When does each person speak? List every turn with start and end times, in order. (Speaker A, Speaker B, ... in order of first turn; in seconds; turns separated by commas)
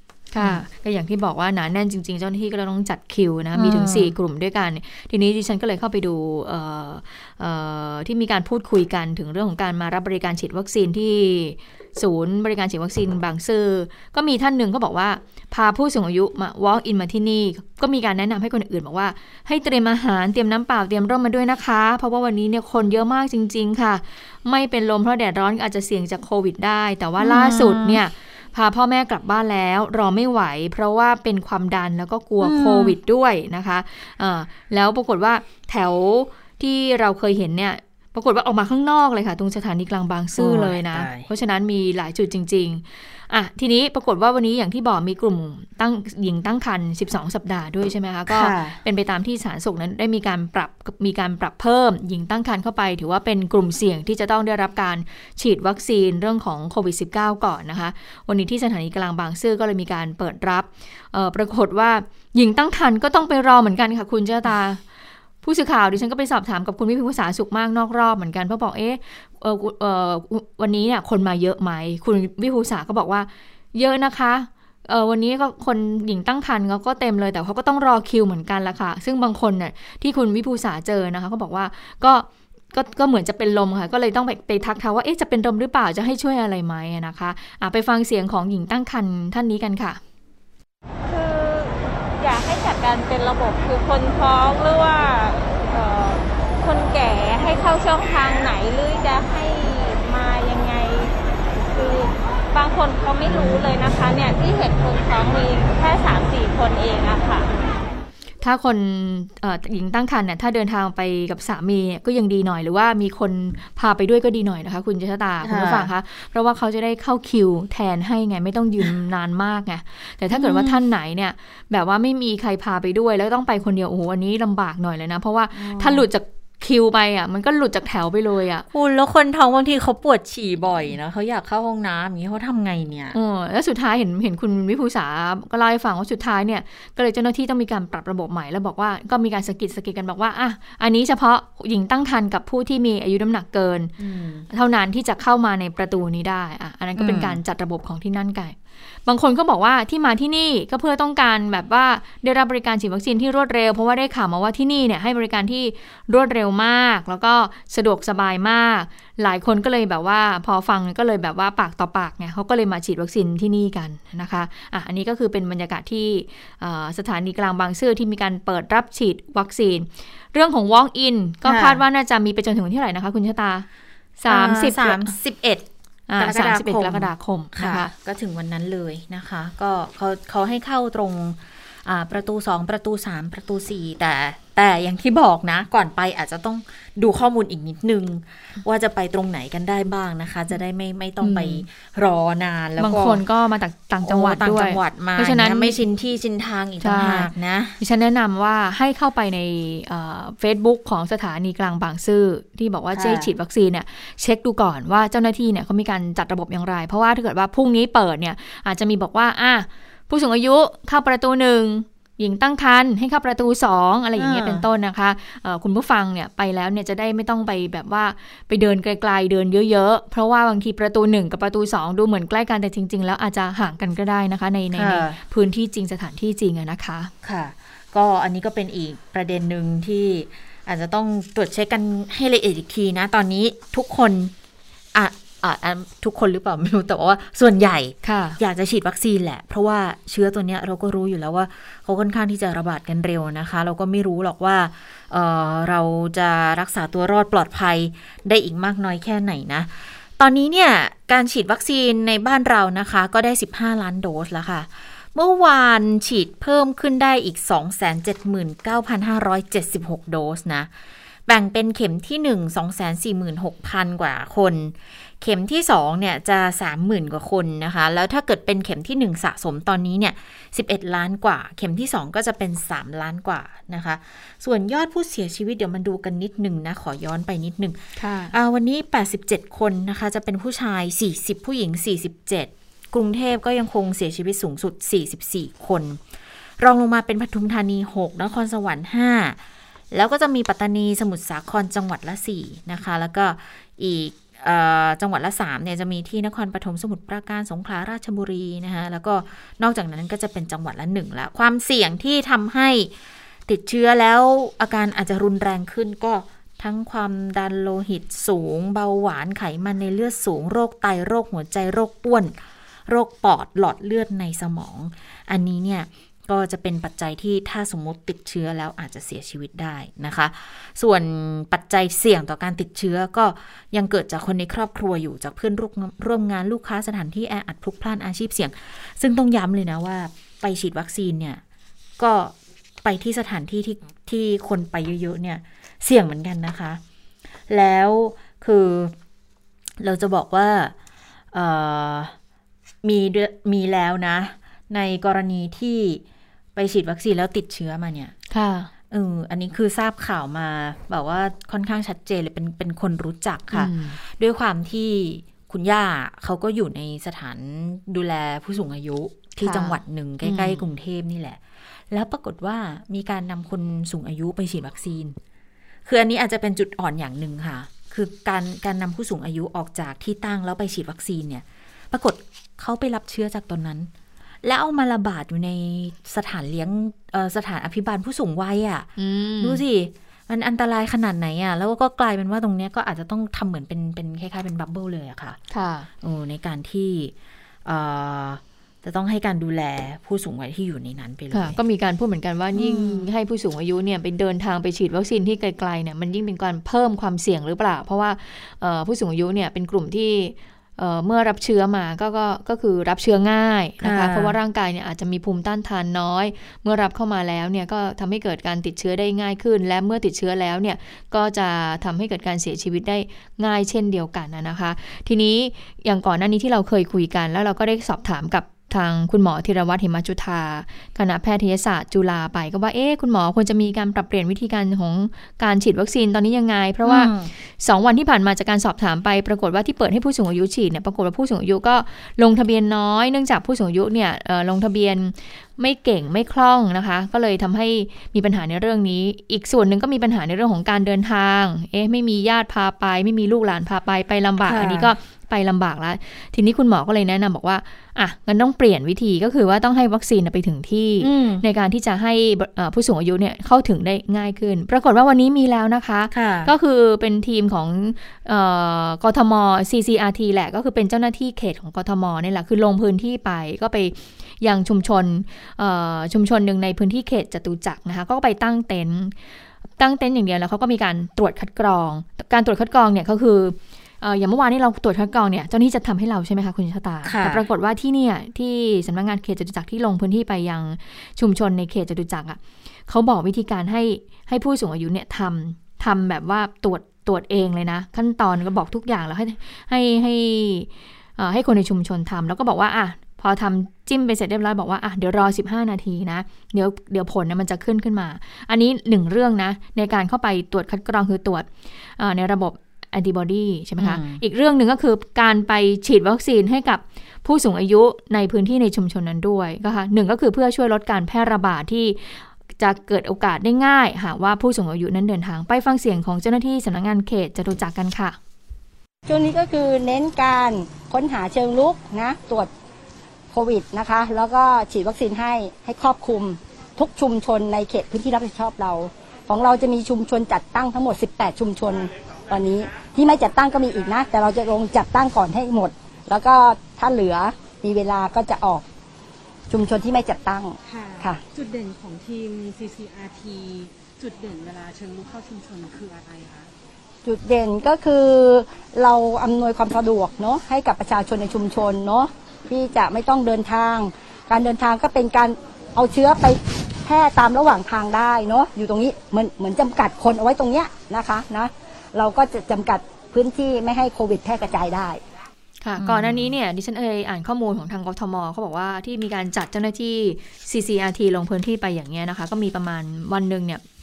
Speaker A: 0.3-64.8, Speaker B: 0.4-0.6, Speaker B: 3.5-4.1, Speaker B: 27.2-28.0, Speaker B: 32.4-33.0, Speaker B: 40.4-41.3, Speaker B: 48.3-48.8, Speaker A: 65.4-90.0, Speaker C: 91.1-107.5, Speaker B: 103.3-103.6, Speaker A: 108.4-128.7, Speaker B: 115.4-115.9, Speaker B: 120.3-120.8, Speaker B: 125.5-126.0, Speaker B: 128.7-133.2, Speaker A: 133.1-143.9, Speaker B: 144.0-144.4, Speaker A: 144.5-173.7, Speaker B: 147.0-147.4, Speaker B: 171.4-171.8, Speaker A: 174.2-175.1, Speaker B: 174.2-193.2, Speaker A: 176.1-177.9, Speaker A: 191.2-191.6, Speaker A: 192.8-195.8, Speaker B: 194.0-197.8, Speaker A: 196.8-227.1, Speaker B: 202.9-203.3, Speaker B: 214.2-214.7, Speaker B: 224.7-225.2, Speaker B: 227.2-234.3, Speaker B: 234.9-260.7, Speaker A: 238.0-238.4, Speaker B: 261.3-277.8, Speaker A: 278.0-278.3, Speaker B: 278.3-286.0, Speaker B: 286.6-289.4, Speaker B: 289.9-302.9, Speaker B: 303.5-312.4, Speaker B: 312.9-331.4, Speaker B: 332.0-336.8, Speaker B: 337.5-338.9, Speaker B: 339.8-340.7, Speaker B: 341.3-342.1, Speaker B: 342.8-346.0, Speaker B: 346.6-348.1, Speaker A: 348.3-348.7, Speaker B: 348.9-365.2, Speaker A: 353.5-354.0, Speaker A: 359.4-360.6, Speaker B: 365.8-373.9, Speaker B: 374.4-378.9, Speaker A: 379.0-379.6, Speaker B: 379.4-385.4, Speaker A: 385.5-385.9, Speaker B: 386.0-387.1, Speaker B: 387.6-391.6, Speaker A: 391.3-469.1, Speaker B: 392.5-393.1, Speaker B: 403.8-404.4, Speaker B: 426.8-427.3, Speaker B: 444.4-444.9, Speaker B: 451.0-451.4, Speaker B: 456.1-456.5, Speaker A: 469.8-518.2, Speaker B: 477.0-477.4, Speaker B: 503.8-504.2, Speaker D: 519.0-522.5, Speaker D: 523.3-538.6, Speaker D: 539.5-541.2, Speaker E: 540.7-546.5, Speaker D: 547.0-565.0, Speaker A: 565.6-573.6, Speaker B: 565.8-566.3